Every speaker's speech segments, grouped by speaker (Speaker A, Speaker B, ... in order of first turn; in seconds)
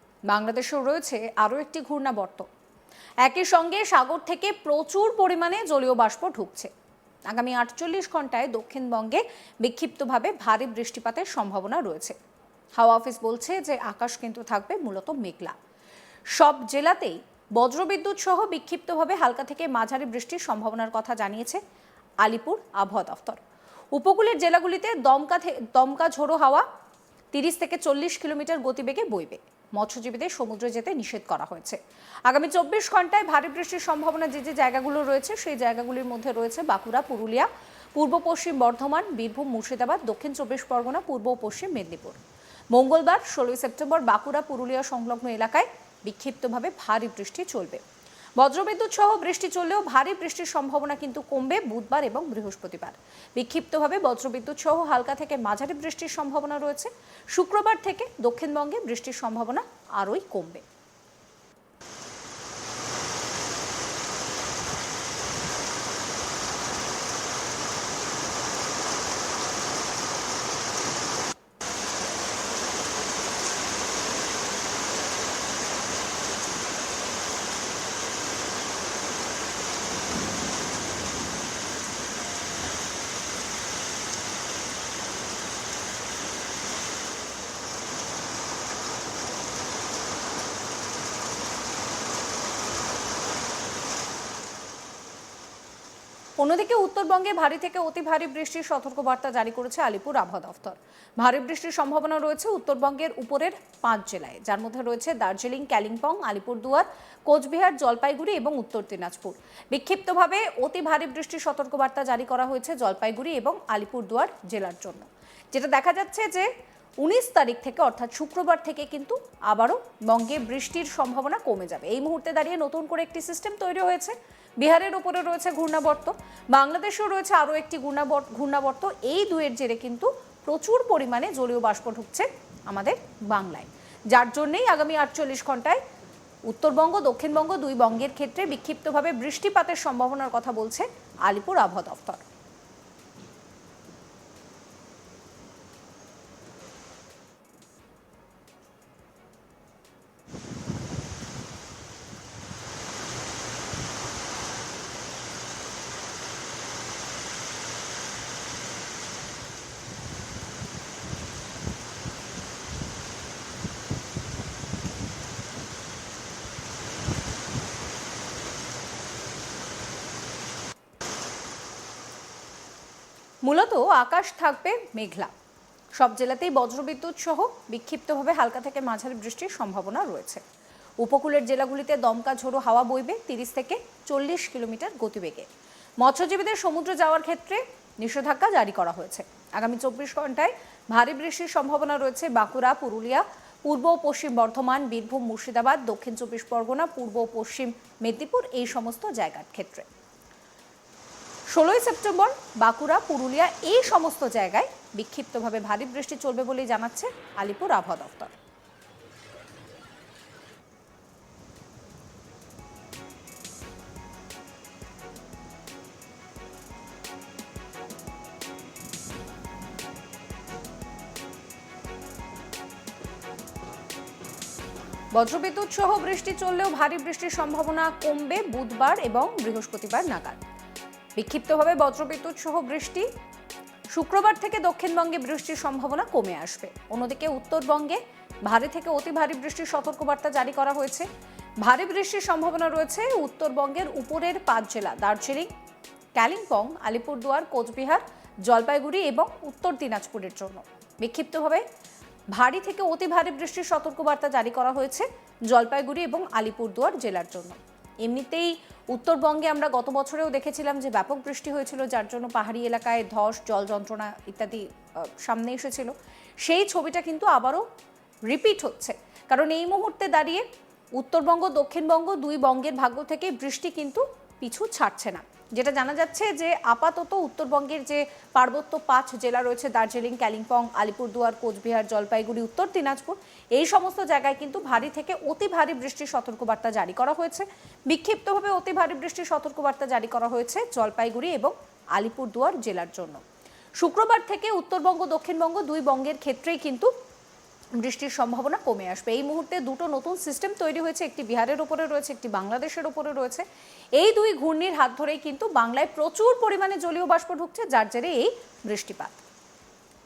Speaker A: 0.3-2.5, 3.2-6.7, 7.3-12.2, 12.8-15.6, 16.3-21.6, 22.2-23.4, 23.9-26.7, 27.3-42.2, 42.7-47.8, 48.4-60.6, 96.4-116.5, 117.0-135.8, 136.5-142.2, 173.4-175.3, 176.0-180.4, 181.0-185.5, 186.0-199.9, 201.5-208.3, 225.1-230.4, 231.2-233.1, 233.9-241.1, 241.6-245.5, 246.2-251.7, 252.3-267.7, 268.3-293.2, 293.8-296.9, 297.8-303.4, 304.0-309.2